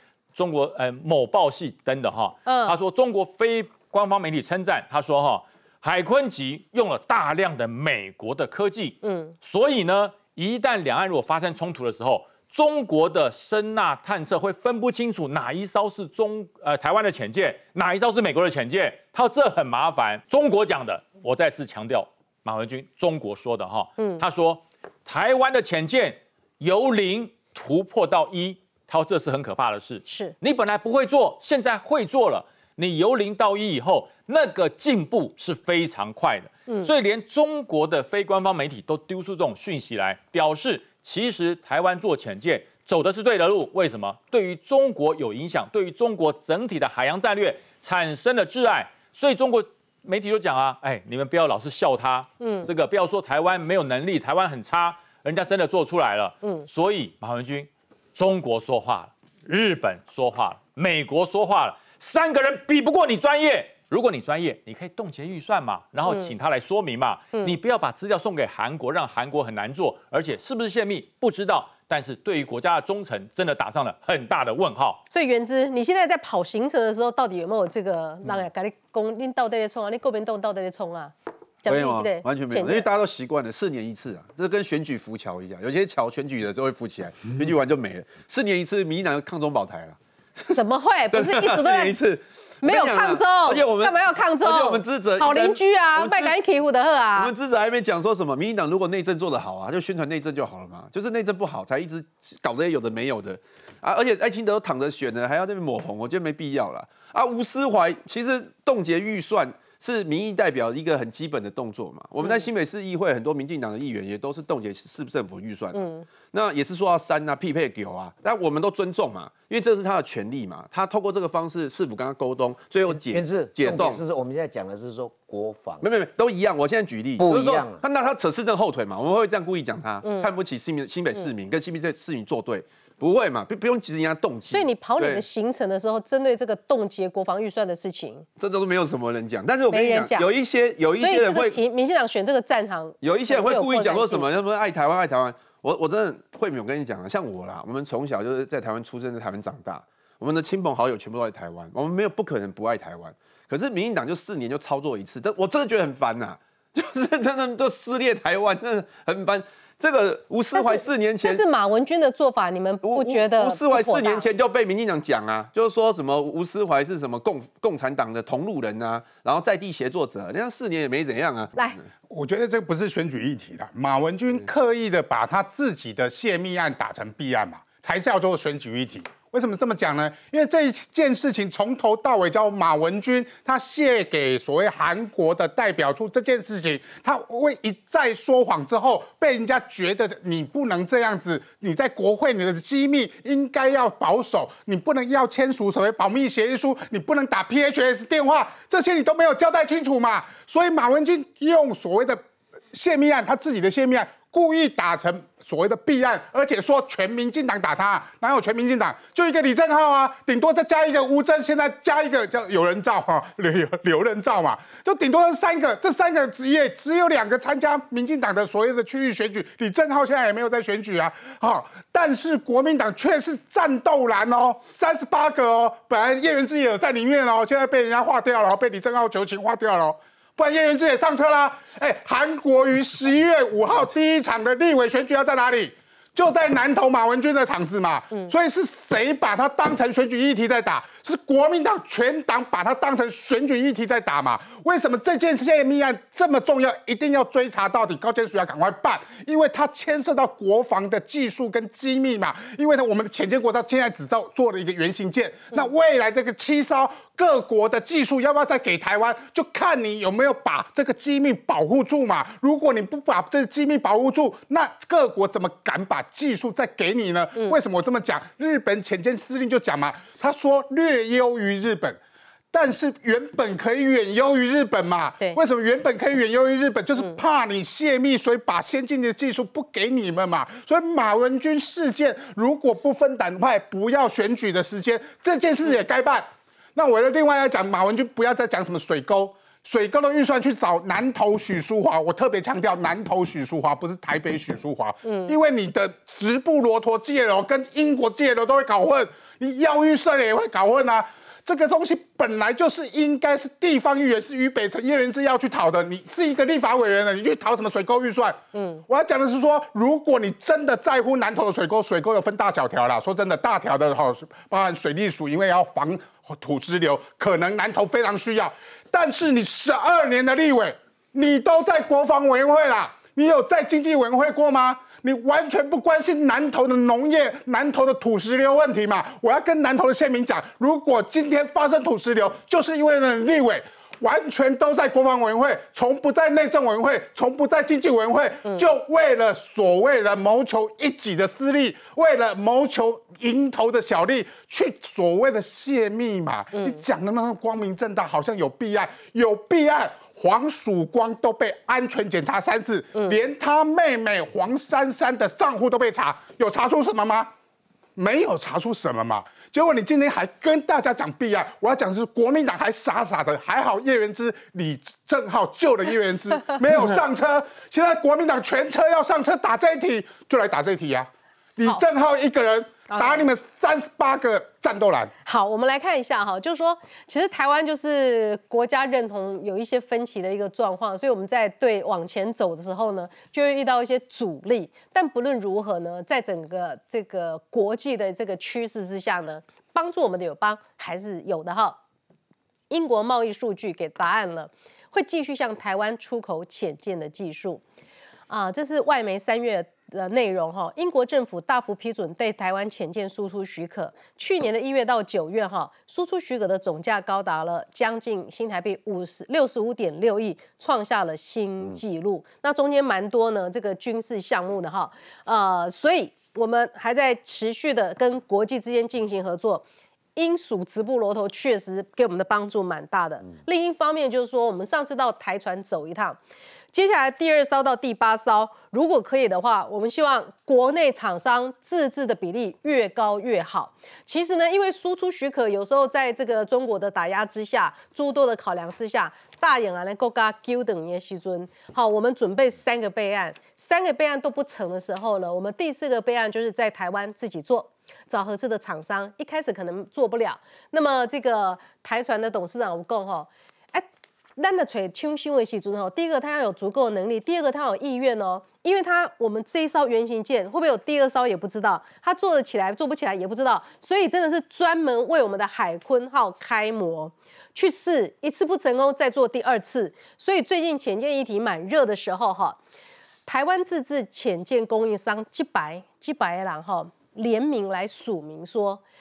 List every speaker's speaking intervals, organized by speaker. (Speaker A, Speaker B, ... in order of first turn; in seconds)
Speaker A: 0.3-75.0
Speaker B: 2.5-2.8, 9.0-9.3, 30.1-30.4, 52.4-52.7, 66.0-66.3, 75.1-81.1, 81.7-82.9, 90.5-92.0, 92.6-97.3, 115.7-116.0, 130.0-130.3, 134.5-138.2, 139.7-140.3, 141.0-144.3, 160.5-164.3, 295.0-295.3, 308.5-308.8, 346.5-346.8, 372.9-373.3, 375.2-391.8, 392.7-397.6, 398.3-419.6, 420.2-426.2, 426.7-472.6, 473.2-478.8
Speaker C: 81.7-90.0, 91.1-96.4, 97.2-115.8, 116.3-124.0, 125.8-135.2, 138.4-141.6, 143.0-161.4, 162.8-171.8
Speaker D: 122.9-125.9, 127.2-127.8
Speaker E: 172.1-272.0, 272.5-357.3, 358.0-375.1